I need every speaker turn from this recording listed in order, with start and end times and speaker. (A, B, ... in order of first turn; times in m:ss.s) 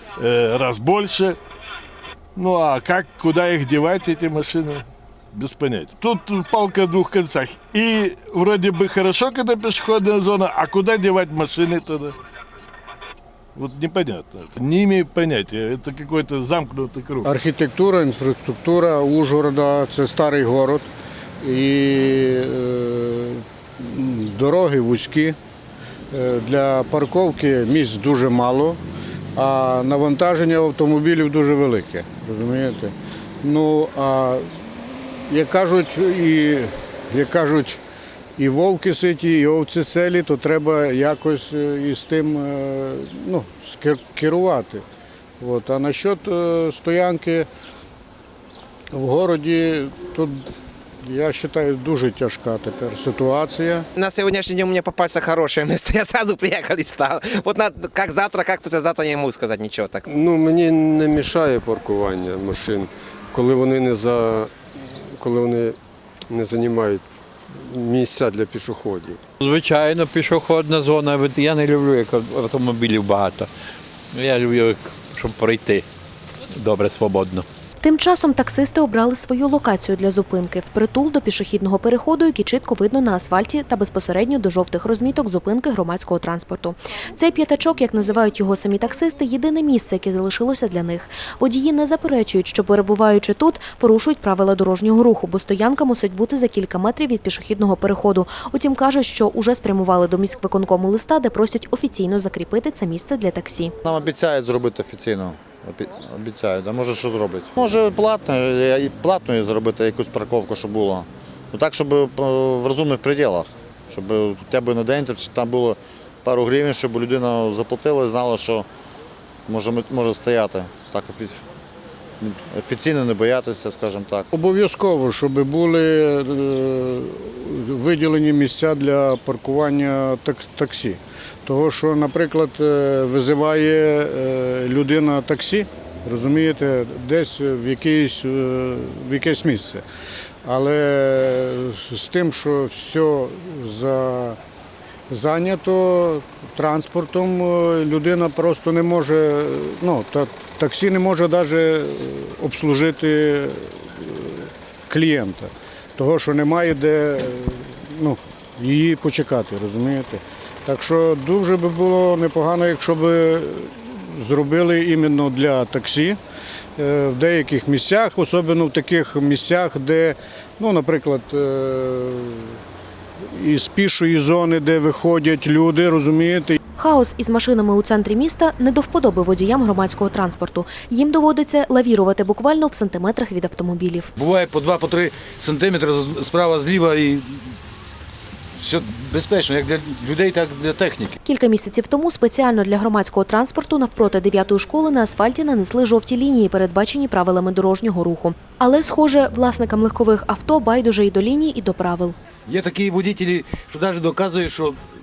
0:00.2-0:01.4 A
0:02.4-0:12.2 A
0:13.6-0:17.3 A
0:17.2-0:20.9 B
0:21.4-0:25.4 B
0:26.1-0:28.8 B
0:29.4-0:37.8 B
0:38.4-0:44.8 B
0:45.4-0:47.5 B
0:48.9-0:50.5 B
0:51.0-0:53.9 B
0:54.0-1:00.0 C
1:00.0-1:04.5 D
1:05.1-1:05.8 D
1:06.3-1:07.0 D
1:07.6-1:09.2 D
1:09.4-1:13.5 E
1:14.1-1:15.9 E
1:16.5-1:17.5 E
1:17.8-1:43.7 F
1:43.8-1:58.7 G
1:59.5-2:01.4 G
2:02.2-2:04.3 G
2:04.3-2:19.8 B
2:20.4-2:24.4 B
2:25.1-2:46.2 B
2:46.8-2:52.6 B
2:53.3-2:56.6 B
2:56.8-3:04.1 F
3:04.2-3:07.5 H
3:08.6-3:11.2 H
3:11.2-3:22.2 F
3:22.5-3:24.8 H